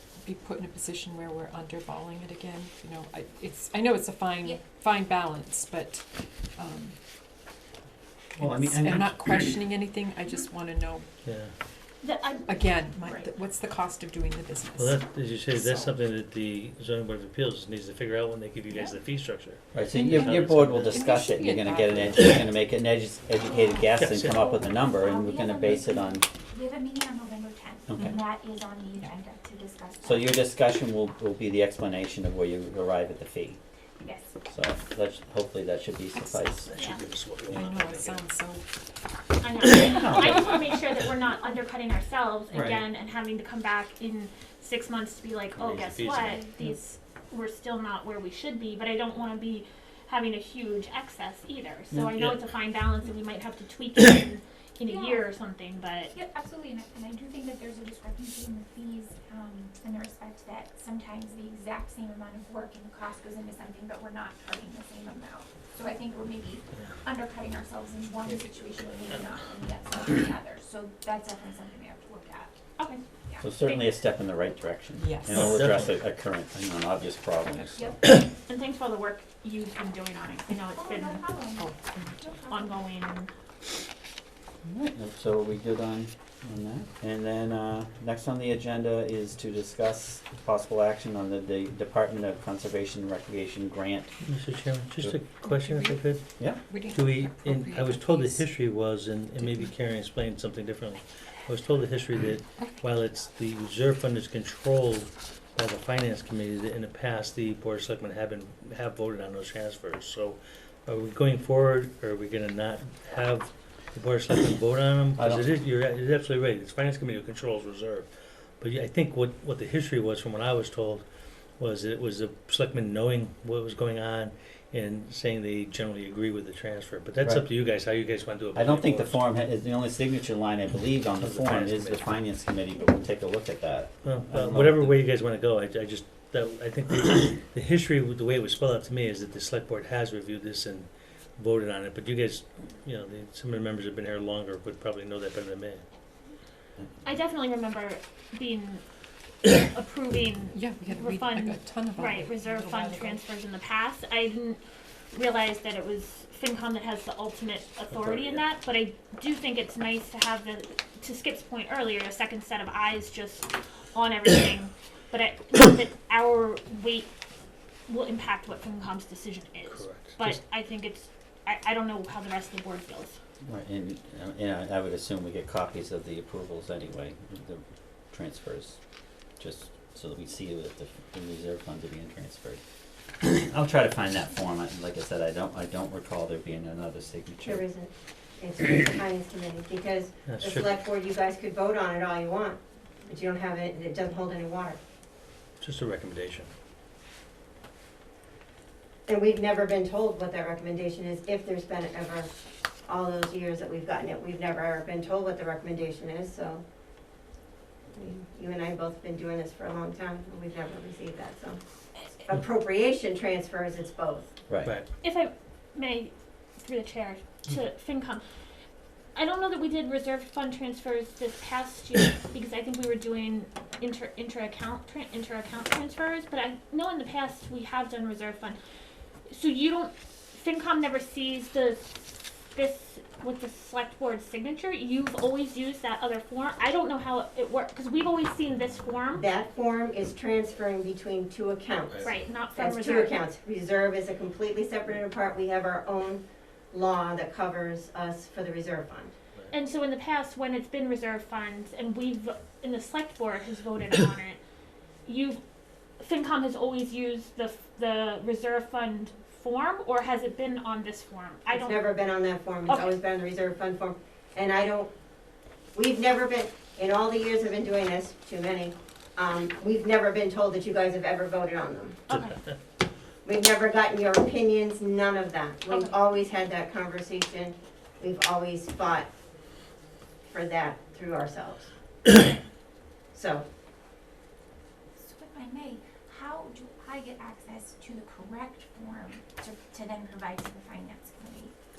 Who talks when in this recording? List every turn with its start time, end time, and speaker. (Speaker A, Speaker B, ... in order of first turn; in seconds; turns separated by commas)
Speaker A: 0.2-7.0, Speaker B: 8.4-9.2, Speaker A: 8.4-11.1, Speaker C: 11.2-11.5, Speaker D: 12.0-12.6, Speaker A: 12.5-15.0, Speaker E: 13.0-13.3, Speaker C: 14.8-21.1, Speaker E: 15.5-16.0, Speaker B: 19.7-26.2, Speaker A: 19.9-22.4, Speaker E: 23.4-30.4, Speaker C: 24.0-24.5, Speaker B: 27.9-28.2, Speaker B: 30.0-33.6, Speaker E: 34.0-34.4, Speaker B: 34.5-36.7, Speaker C: 36.7-38.2, Speaker A: 37.5-38.7, Speaker D: 39.4-56.1, Speaker B: 39.9-40.5, Speaker B: 42.5-42.8, Speaker C: 45.5-46.5, Speaker E: 54.9-55.2, Speaker E: 56.1-72.6, Speaker B: 73.4-77.8, Speaker A: 75.0-75.5, Speaker C: 75.3-76.0, Speaker D: 78.5-81.3, Speaker E: 80.7-82.8, Speaker A: 81.6-82.0, Speaker D: 82.5-83.3, Speaker B: 84.6-94.1, Speaker C: 94.2-96.4, Speaker A: 95.4-98.5, Speaker C: 96.9-118.1, Speaker B: 115.2-115.5, Speaker C: 118.6-121.0, Speaker C: 121.6-129.2, Speaker B: 128.6-135.0, Speaker C: 131.2-132.1, Speaker C: 134.0-145.8, Speaker D: 147.0-148.8, Speaker D: 149.4-154.6, Speaker A: 150.5-153.2, Speaker D: 155.1-167.1, Speaker B: 158.0-158.4, Speaker D: 167.9-173.2, Speaker C: 169.7-170.4, Speaker B: 173.4-178.8, Speaker B: 179.4-182.6, Speaker B: 183.2-187.6, Speaker F: 187.4-194.8, Speaker C: 190.3-190.8, Speaker C: 195.6-196.5, Speaker F: 199.1-202.3, Speaker F: 202.9-206.6, Speaker F: 207.9-211.6, Speaker F: 212.2-214.3, Speaker D: 215.0-218.2, Speaker D: 219.2-228.6, Speaker D: 229.3-239.3, Speaker F: 239.1-249.1, Speaker D: 242.0-243.2, Speaker D: 249.5-254.4, Speaker D: 255.1-255.4, Speaker D: 256.0-261.9, Speaker F: 261.5-264.9, Speaker D: 262.7-263.0, Speaker F: 265.7-272.0, Speaker D: 272.1-272.4, Speaker F: 273.2-279.1, Speaker F: 280.3-281.7, Speaker F: 283.1-283.4, Speaker E: 285.0-291.5